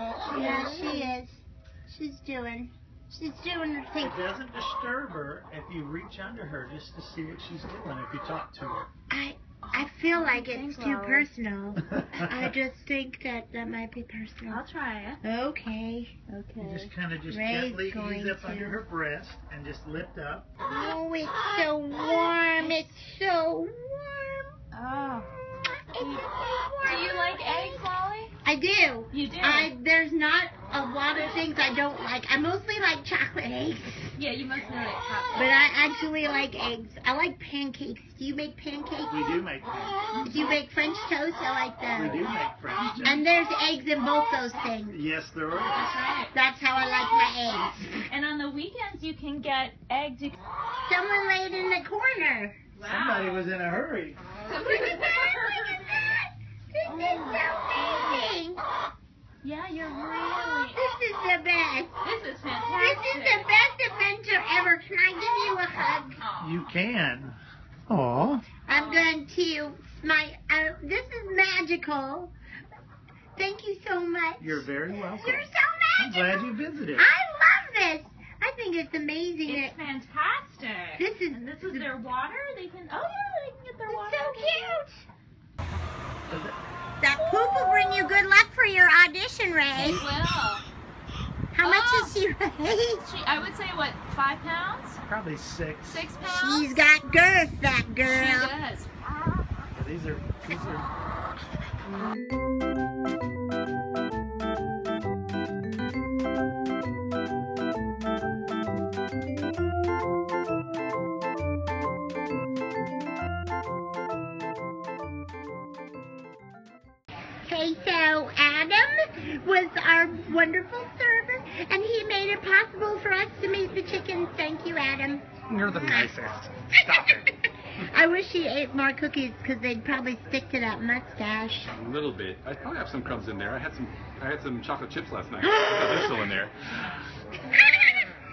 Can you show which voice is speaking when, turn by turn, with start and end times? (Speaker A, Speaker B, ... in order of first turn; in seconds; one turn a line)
Speaker A: 0.2-1.1
Speaker B: 0.3-4.3
Speaker C: 4.0-8.9
Speaker B: 9.1-14.6
Speaker A: 9.6-11.3
Speaker C: 11.9-12.3
Speaker A: 14.5-15.2
Speaker B: 15.2-16.1
Speaker A: 16.3-16.9
Speaker C: 16.6-20.5
Speaker B: 17.3-18.8
Speaker B: 20.6-24.6
Speaker A: 22.6-22.9
Speaker A: 24.7-25.3
Speaker B: 25.6-27.9
Speaker A: 26.0-26.2
Speaker A: 26.8-28.3
Speaker B: 28.4-34.1
Speaker A: 29.1-29.7
Speaker A: 31.1-31.4
Speaker A: 34.2-35.7
Speaker B: 35.4-39.4
Speaker C: 39.1-40.0
Speaker A: 40.1-40.5
Speaker B: 40.2-42.3
Speaker C: 41.9-43.2
Speaker A: 42.8-43.2
Speaker B: 43.0-45.0
Speaker C: 44.9-45.8
Speaker A: 45.7-46.3
Speaker B: 46.3-48.0
Speaker A: 48.1-50.4
Speaker B: 50.9-52.6
Speaker A: 52.8-53.5
Speaker C: 52.8-54.2
Speaker A: 54.5-56.1
Speaker B: 54.5-58.6
Speaker A: 56.9-58.4
Speaker A: 59.4-60.8
Speaker B: 60.7-61.9
Speaker A: 62.0-63.5
Speaker B: 62.7-66.2
Speaker A: 66.2-66.7
Speaker C: 66.4-68.5
Speaker B: 68.7-72.3
Speaker A: 68.7-69.2
Speaker B: 73.4-79.8
Speaker C: 74.4-77.1
Speaker A: 79.5-84.8
Speaker B: 81.0-81.9
Speaker B: 83.9-85.0
Speaker C: 86.3-86.6
Speaker B: 87.0-90.0
Speaker A: 87.1-88.0
Speaker A: 89.8-90.7
Speaker B: 91.5-93.0
Speaker A: 91.6-92.2
Speaker A: 93.0-95.0
Speaker C: 95.1-96.1
Speaker A: 95.8-96.8
Speaker B: 96.3-98.5
Speaker A: 98.0-99.0
Speaker C: 99.7-100.9
Speaker B: 117.5-127.3
Speaker C: 125.5-126.5
Speaker D: 125.6-126.1
Speaker B: 127.8-131.7
Speaker D: 131.7-136.5
Speaker B: 135.5-136.1
Speaker B: 137.5-138.1